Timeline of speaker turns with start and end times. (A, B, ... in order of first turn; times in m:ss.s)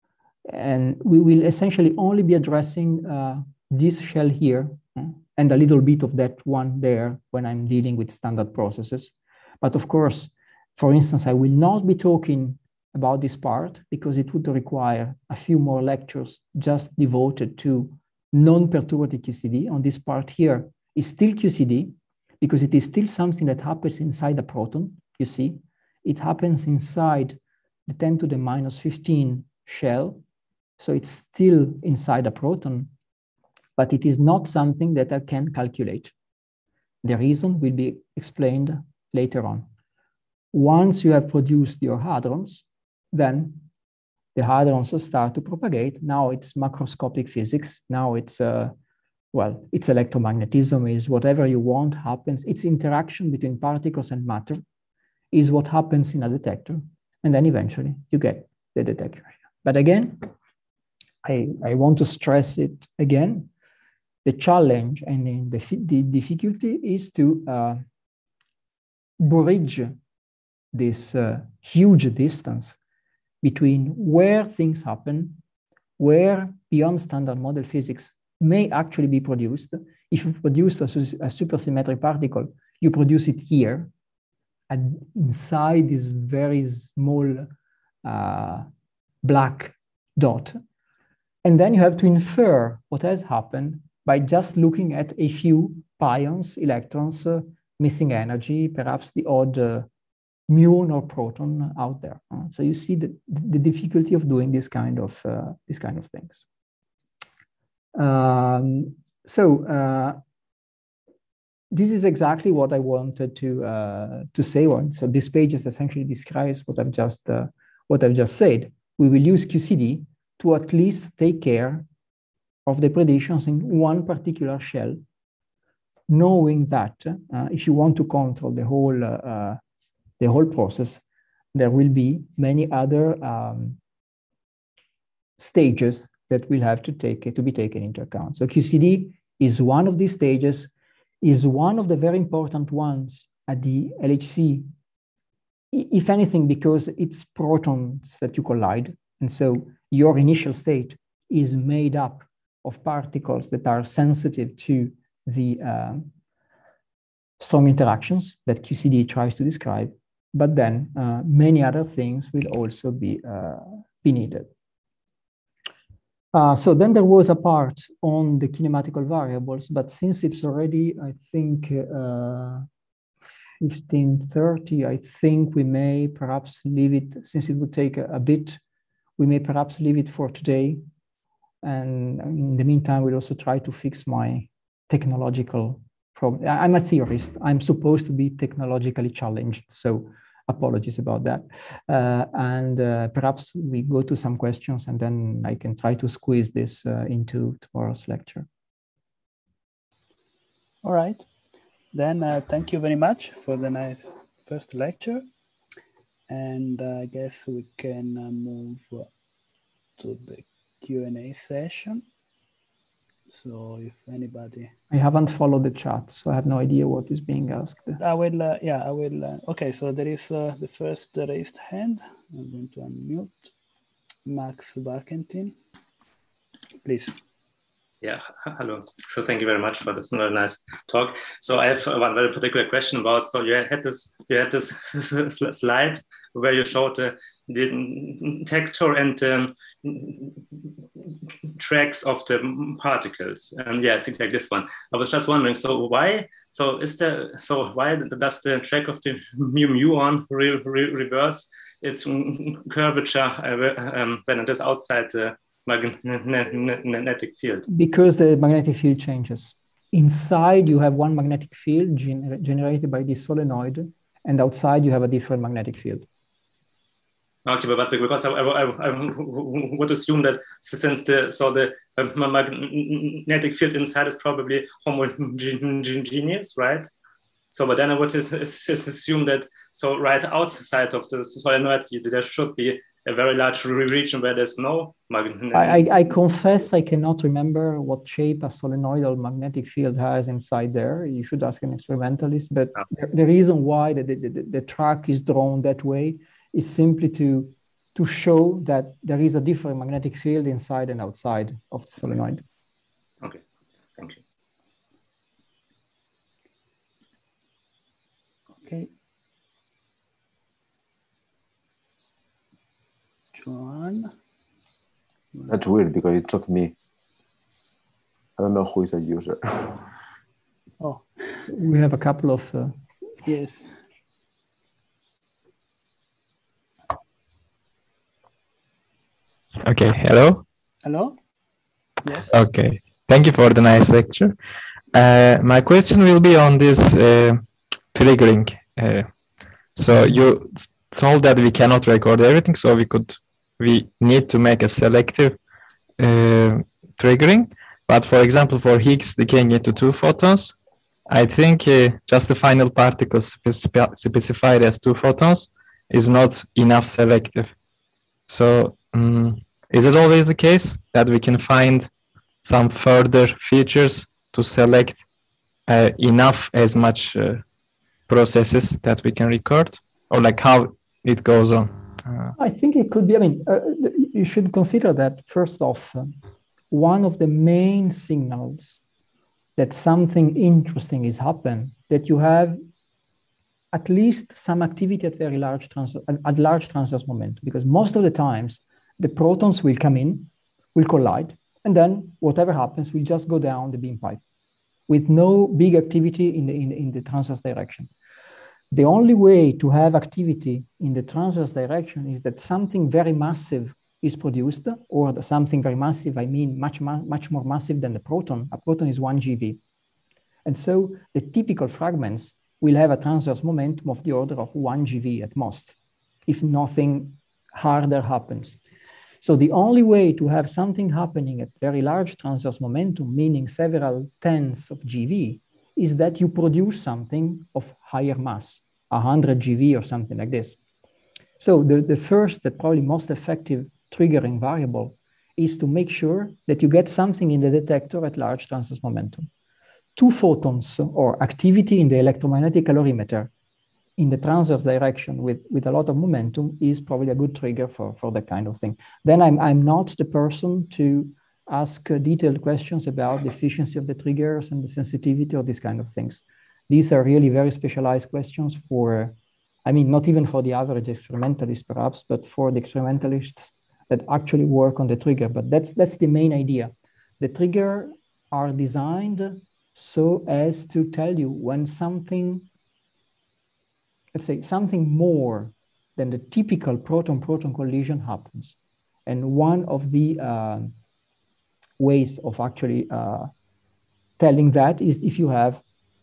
0:00.5-0:30.2 A
0:30.8-0:32.9 A
0:33.8-0:36.1 A
0:37.0-0:39.7 A
0:40.5-0:43.6 A
0:44.4-0:48.7 A
0:49.3-0:54.6 A
0:55.3-1:00.3 A
1:01.2-1:03.5 A
1:04.2-1:07.8 A
1:09.2-1:10.0 A
1:10.7-1:12.8 A
1:13.4-1:15.4 A
1:16.0-1:23.9 A
1:24.7-1:27.5 A
1:28.0-1:28.7 A
1:29.2-1:30.6 A
1:31.4-1:39.9 A
1:40.5-1:46.4 A
1:48.0-1:50.2 A
1:51.7-2:01.8 A
2:02.7-2:05.0 A
2:06.1-2:09.6 A
2:10.2-2:11.0 A
2:11.5-2:13.8 A
2:15.4-2:20.7 A
2:21.2-2:24.7 A
2:25.7-2:36.1 A
2:37.4-2:44.5 A
2:46.3-2:52.7 A
2:53.6-2:58.6 A
2:59.2-3:00.8 A
3:01.6-3:18.5 A
3:20.8-3:21.3 B
3:21.9-3:25.2 B
3:26.3-3:29.1 B
3:30.0-3:32.0 B
3:33.3-3:34.7 B
3:34.9-3:38.0 A
3:38.0-3:43.5 B
3:44.2-3:45.6 B
3:46.8-3:47.2 B
3:48.0-4:00.7 C
4:01.5-4:17.6 C
4:17.7-4:26.1 A
4:27.5-4:36.9 C
4:37.5-4:45.9 C
4:45.5-5:02.4 A
5:04.0-5:04.2 C
5:08.6-5:08.9 B
5:13.3-5:14.1 B
5:15.5-5:16.7 D
5:18.4-5:19.8 D
5:20.8-5:21.1 B
5:21.5-5:22.8 A
5:23.3-5:23.8 B
5:29.6-5:30.4 E
5:30.8-5:31.2 B
5:32.0-5:32.4 B
5:32.3-5:34.4 E
5:34.9-5:39.1 E
5:39.8-5:45.4 E
5:46.0-5:50.5 E
5:51.1-5:57.5 E
5:58.3-6:01.9 E
6:02.4-6:05.1 E
6:05.7-6:07.4 E
6:08.1-6:12.3 E
6:12.4-6:16.1 A
6:16.7-6:18.8 A
6:19.6-6:22.6 A
6:23.7-6:34.2 A
6:34.9-6:37.9 A
6:38.7-6:49.6 A
6:50.4-6:55.8 A
6:56.3-6:58.6 A
6:59.2-7:10.6 A
7:11.4-7:19.3 A
7:20.0-7:23.3 A
7:24.0-7:52.5 A
7:54.1-8:00.8 A
8:01.8-8:03.3 A
8:04.2-8:05.6 A